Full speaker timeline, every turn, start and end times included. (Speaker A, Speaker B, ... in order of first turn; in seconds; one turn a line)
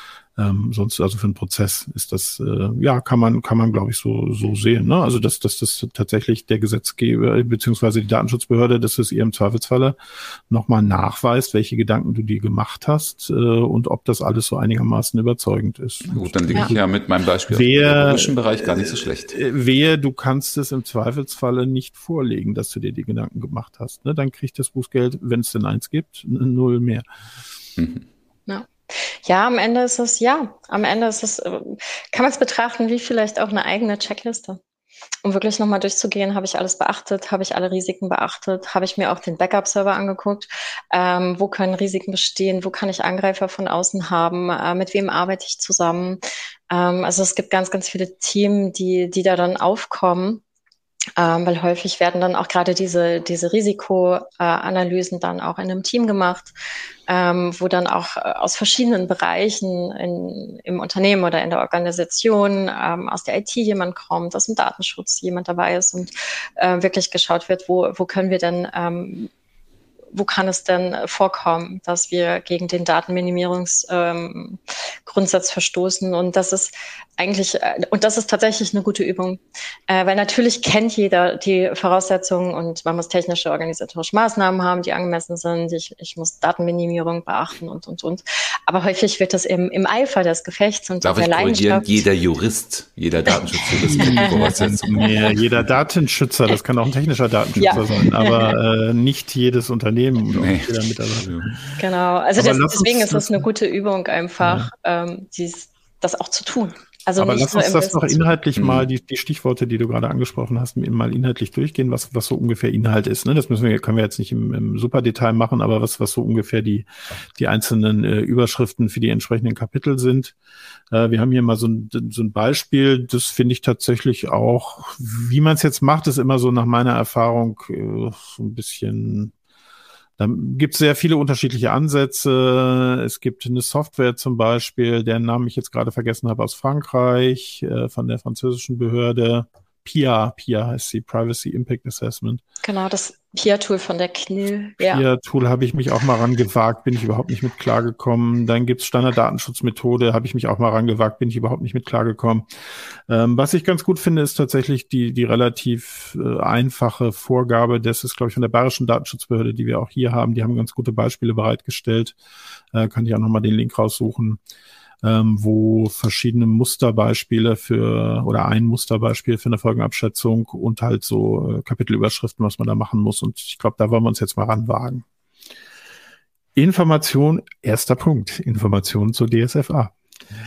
Speaker A: 0.4-10.0
Speaker A: 10.5-16.8
Speaker B: 16.1-19.4
Speaker A: 17.5-27.1
Speaker B: 27.8-28.1
Speaker C: 28.5-34.6
Speaker C: 35.2-50.4
Speaker C: 51.2-56.5
Speaker C: 57.1-69.3
Speaker C: 70.1-92.0
Speaker B: 91.0-95.6
Speaker C: 93.3-95.3
Speaker A: 93.9-101.8
Speaker C: 97.6-98.5
Speaker B: 100.3-101.5
Speaker C: 101.8-108.3
Speaker A: 102.4-103.5
Speaker A: 104.4-104.7
Speaker A: 107.2-120.3
Speaker B: 108.6-108.8
Speaker A: 120.9-129.3
Speaker A: 130.2-142.4
Speaker C: 142.6-145.1
Speaker A: 144.8-162.2
Speaker A: 162.7-164.4
Speaker A: 165.0-175.1
Speaker A: 176.6-179.9